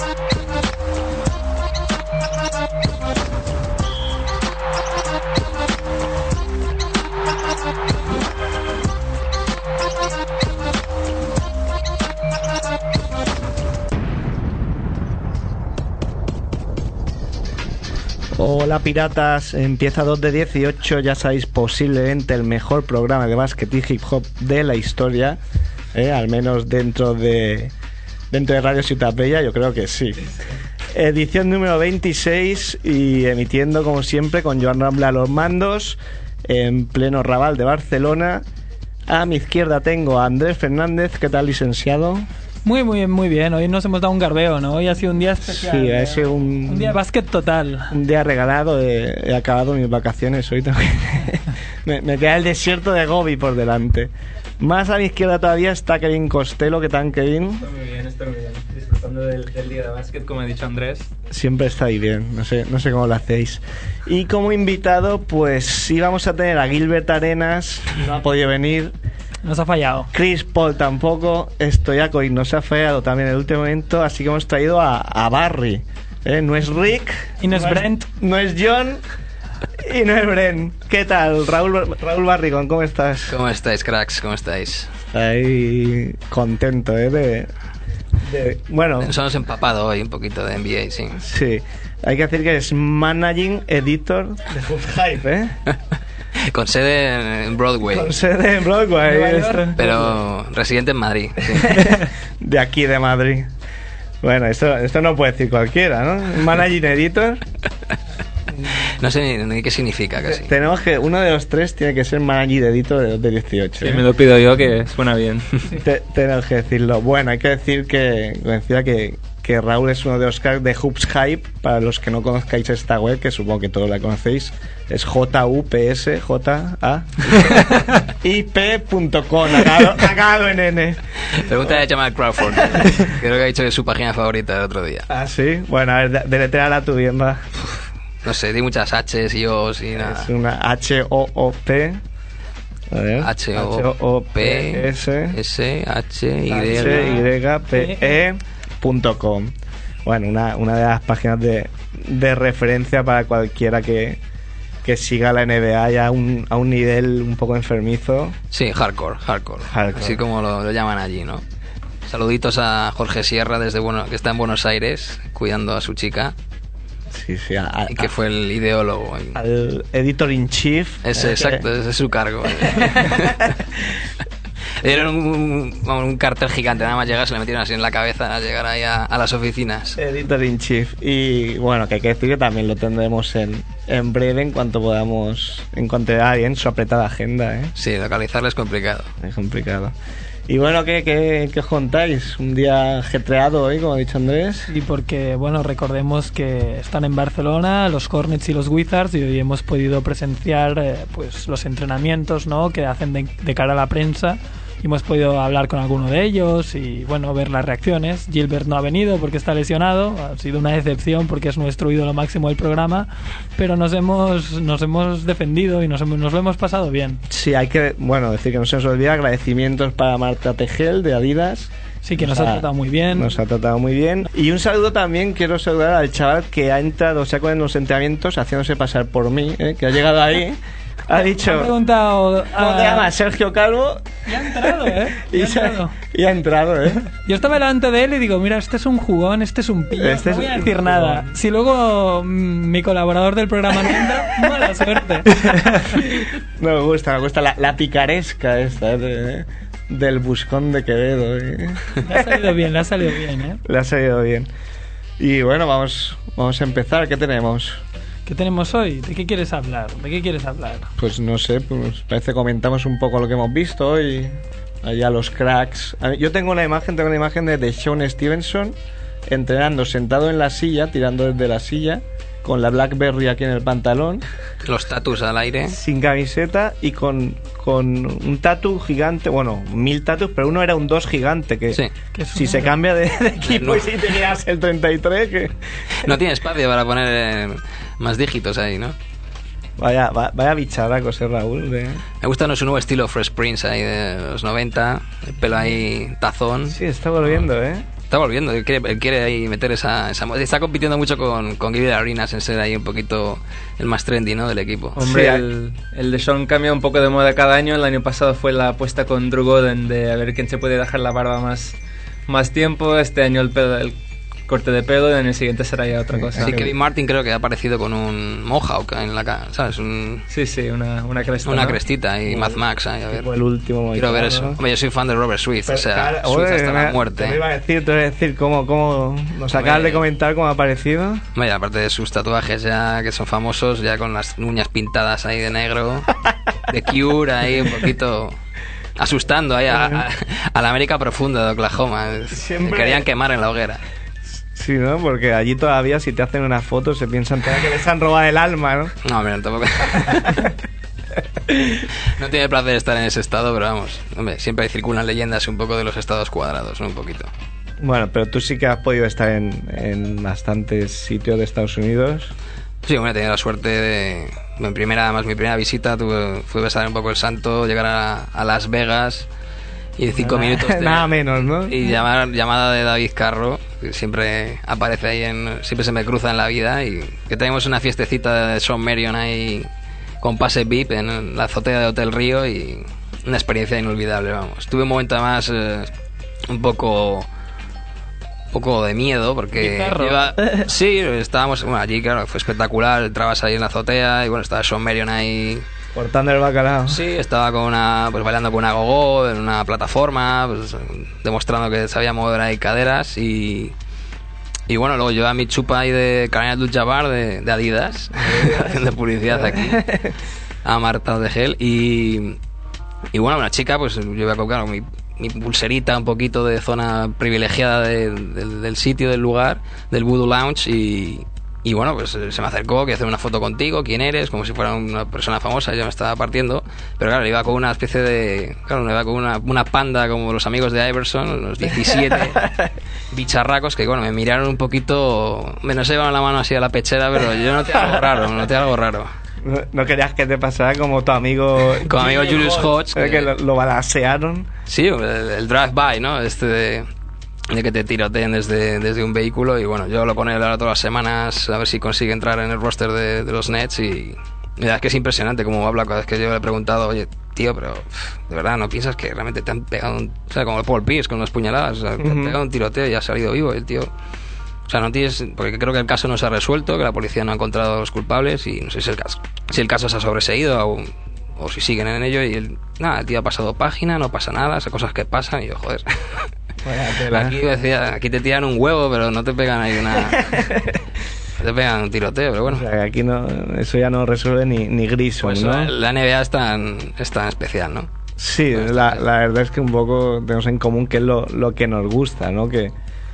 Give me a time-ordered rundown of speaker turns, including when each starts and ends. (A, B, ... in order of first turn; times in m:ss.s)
0:18.3-0:25.4 A
0:25.9-0:27.7 A
0:28.3-0:30.3 A
0:30.9-0:38.4 A
0:39.1-0:42.3 A
0:42.6-0:47.9 B
0:45.4-0:47.0 A
0:47.9-0:57.7 A
0:57.6-1:01.1 C
1:01.3-1:08.9 A
1:09.4-1:10.1 B
1:10.1-1:19.0 A
1:17.4-1:18.0 B
1:19.8-1:23.4 A
1:23.3-1:24.9 D
1:25.1-1:27.5 A
1:28.2-1:29.1 A
1:29.0-1:31.2 D
1:31.1-1:35.6 A
1:36.4-1:38.1 D
1:37.8-1:39.8 A
1:39.0-1:39.9 B
1:39.8-1:42.0 D
1:41.5-1:43.5 A
1:44.2-1:47.4 A
1:48.5-1:48.8 A
1:48.9-1:50.5 D
1:50.2-1:54.1 A
1:53.8-1:55.5 C
1:55.7-2:11.0 A
2:11.3-2:15.0 D
2:12.6-2:13.1 A
2:15.1-2:17.5 A
2:18.2-2:20.3 D
2:19.9-2:22.0 A
2:22.9-2:25.4 A
2:23.2-2:27.2 D
2:26.5-2:29.5 A
2:26.8-2:28.1 B
2:30.0-2:34.2 A
2:34.8-2:38.4 A
2:38.5-2:41.4 D
2:39.6-2:40.2 A
2:42.0-2:46.3 D
2:47.1-2:48.1 A
2:47.9-2:49.4 D
2:49.3-2:51.6 A
2:51.0-2:53.5 D
2:52.6-2:53.4 A
2:54.8-3:00.0 D
3:00.0-3:07.7 A
3:07.8-3:09.1 D
3:09.2-3:09.9 A
3:10.5-3:14.7 A
3:14.7-3:37.2 B
3:37.3-3:51.7 A
3:42.0-3:43.3 B
3:51.2-3:53.1 B
3:52.5-3:57.0 A
3:54.2-3:55.9 B
3:57.2-4:06.0 B
4:00.0-4:01.4 A
4:05.9-4:12.5 A
4:12.0-4:13.6 B
4:13.6-4:14.5 A
4:15.2-4:17.8 A
4:18.2-4:20.9 B
4:21.0-4:28.8 A
4:29.3-4:34.2 A
4:34.6-4:35.8 D
4:35.7-4:41.8 A
4:42.1-4:42.7 B
4:42.3-4:45.5 A
4:43.4-4:43.9 D
4:45.9-4:48.9 D
4:49.8-4:52.0 A
4:52.2-4:57.4 D
4:56.6-4:57.8 A
4:58.1-5:05.0 D
5:05.0-5:13.9 C
5:05.0-5:05.4 A
5:14.5-5:16.6 C
5:16.2-5:16.7 A
5:16.4-5:20.2 D
5:20.3-5:21.8 C
5:21.4-5:23.3 D
5:22.3-5:24.6 A
5:23.9-5:27.4 D
5:25.6-5:31.2 A
5:29.5-5:30.0 D
5:31.4-5:36.1 D
5:36.7-5:38.4 D
5:39.0-5:43.8 D
5:39.7-5:40.0 A
5:42.3-5:43.0 A
5:44.5-5:48.9 A
5:49.0-5:50.5 D
5:50.0-5:50.5 A
5:51.5-5:51.8 A
5:52.0-5:57.3 D
5:57.8-6:02.3 A
6:02.8-6:09.3 D
6:10.0-6:19.7 D
6:10.1-6:11.9 A
6:20.2-6:25.9 D
6:26.5-6:27.3 D
6:28.5-6:35.6 D
6:29.6-6:30.2 B
6:35.9-6:37.0 A
6:36.9-6:43.7 D
6:44.7-6:49.8 D
6:48.2-6:50.1 A
6:50.6-6:52.4 D
6:53.1-7:12.4 D
7:12.1-7:12.7 A
7:13.1-7:19.1 D
7:19.4-7:24.5 A
7:21.8-7:23.3 D
7:24.7-7:26.9 D
7:27.5-7:43.9 D
7:42.0-7:42.4 A
7:44.7-7:56.2 D
7:56.6-7:57.4 A
7:57.1-8:00.5 D
8:00.2-8:00.8 A
8:01.4-8:02.6 D
8:02.4-8:05.7 A
8:05.2-8:07.9 D
8:08.2-8:12.7 A
8:08.5-8:09.0 D